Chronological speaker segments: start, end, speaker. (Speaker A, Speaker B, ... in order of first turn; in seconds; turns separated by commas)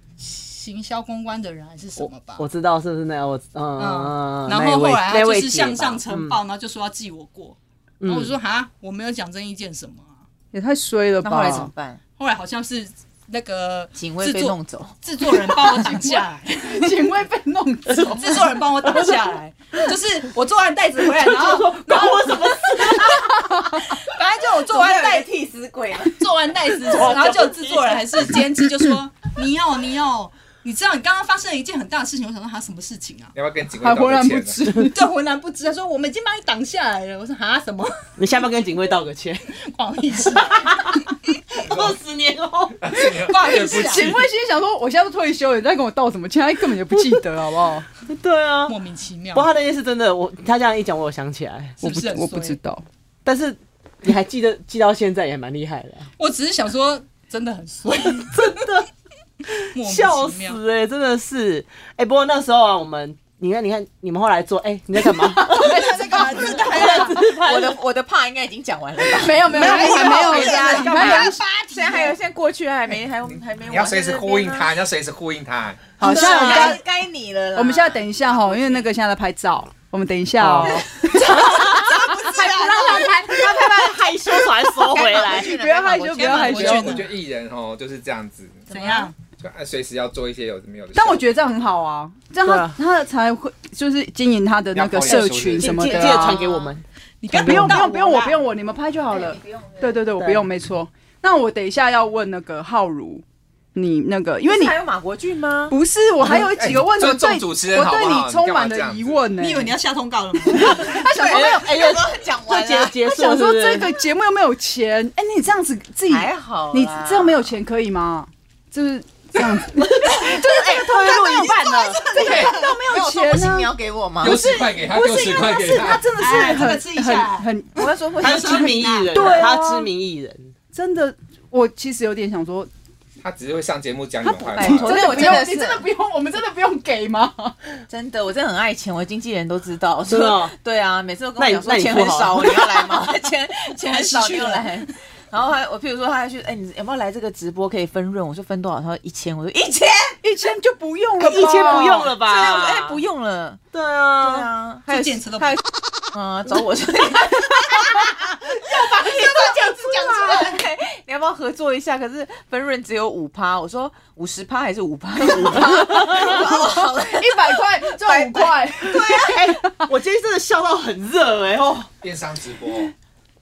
Speaker A: 0.2-2.5, Speaker B: 2.0-6.4, Speaker A: 3.8-10.2, Speaker B: 8.0-8.3, Speaker C: 10.5-11.7, Speaker D: 11.2-12.0, Speaker A: 12.2-16.9, Speaker D: 13.9-14.9, Speaker C: 15.8-18.4, Speaker A: 18.1-23.2, Speaker B: 21.0-23.2, Speaker A: 23.9-25.3, Speaker D: 24.7-26.2, Speaker A: 26.1-33.3, Speaker B: 26.8-28.0, Speaker E: 33.3-34.7, Speaker C: 33.8-35.0, Speaker A: 34.8-37.9, Speaker B: 38.2-39.5, Speaker A: 39.6-41.2, Speaker B: 40.3-40.9, Speaker B: 41.6-42.8, Speaker E: 41.6-42.0, Speaker E: 42.8-44.2, Speaker A: 43.2-44.1, Speaker C: 43.7-47.9, Speaker B: 48.0-48.8, Speaker A: 48.7-49.5, Speaker B: 49.3-51.8, Speaker A: 51.8-52.6, Speaker C: 51.8-52.8, Speaker B: 53.2-56.1, Speaker A: 56.2-58.7, Speaker B: 58.3-58.9, Speaker B: 59.5-67.8, Speaker A: 59.7-60.6, Speaker A: 65.2-67.2, Speaker C: 65.3-66.7, Speaker D: 66.8-74.8, Speaker C: 69.2-71.4, Speaker A: 69.5-72.2, Speaker B: 70.3-71.3, Speaker E: 73.2-76.0, Speaker C: 76.0-76.8, Speaker D: 76.0-78.9, Speaker B: 76.0-76.8, Speaker C: 77.5-83.3, Speaker B: 80.4-80.8, Speaker D: 81.0-83.2, Speaker A: 82.3-83.0, Speaker B: 82.5-85.5, Speaker D: 84.8-87.1, Speaker C: 85.2-87.0, Speaker A: 86.1-87.0, Speaker E: 86.5-88.7, Speaker A: 88.7-89.1, Speaker D: 88.7-89.1, Speaker E: 89.4-91.2, Speaker C: 90.9-96.4, Speaker B: 92.4-92.8, Speaker E: 94.7-96.0, Speaker B: 95.1-97.8, Speaker D: 95.9-96.7, Speaker A: 96.0-96.5, Speaker A: 97.2-98.4, Speaker C: 97.4-103.2, Speaker D: 99.1-100.0, Speaker B: 100.2-100.4, Speaker C: 103.7-104.7, Speaker D: 104.5-105.7, Speaker C: 105.7-109.7, Speaker E: 106.2-109.2, Speaker A: 109.4-110.8, Speaker C: 110.5-111.7, Speaker D: 110.8-112.9, Speaker B: 110.8-113.9, Speaker C: 113.0-123.7, Speaker D: 116.1-117.5, Speaker B: 119.9-122.0, Speaker A: 121.8-122.5, Speaker D: 122.0-124.5, Speaker E: 122.2-122.5, Speaker E: 124.2-126.1, Speaker A: 124.2-125.6, Speaker C: 124.3-127.8, Speaker A: 126.1-127.5, Speaker D: 127.7-128.9, Speaker A: 128.2-129.1, Speaker B: 128.2-130.5, Speaker C: 129.1-129.9, Speaker C: 130.7-132.7, Speaker E: 133.2-135.4, Speaker C: 134.2-137.6, Speaker D: 134.4-135.8, Speaker D: 137.9-150.2, Speaker B: 140.1-140.5, Speaker B: 141.4-143.1, Speaker A: 143.9-144.9, Speaker C: 150.2-152.1, Speaker B: 151.2-153.0, Speaker D: 151.8-153.6, Speaker B: 153.7-154.5, Speaker D: 154.2-169.6, Speaker A: 154.9-155.6, Speaker A: 159.0-160.6, Speaker B: 165.4-166.4, Speaker C: 165.6-169.5, Speaker B: 168.9-171.9, Speaker E: 172.0-172.9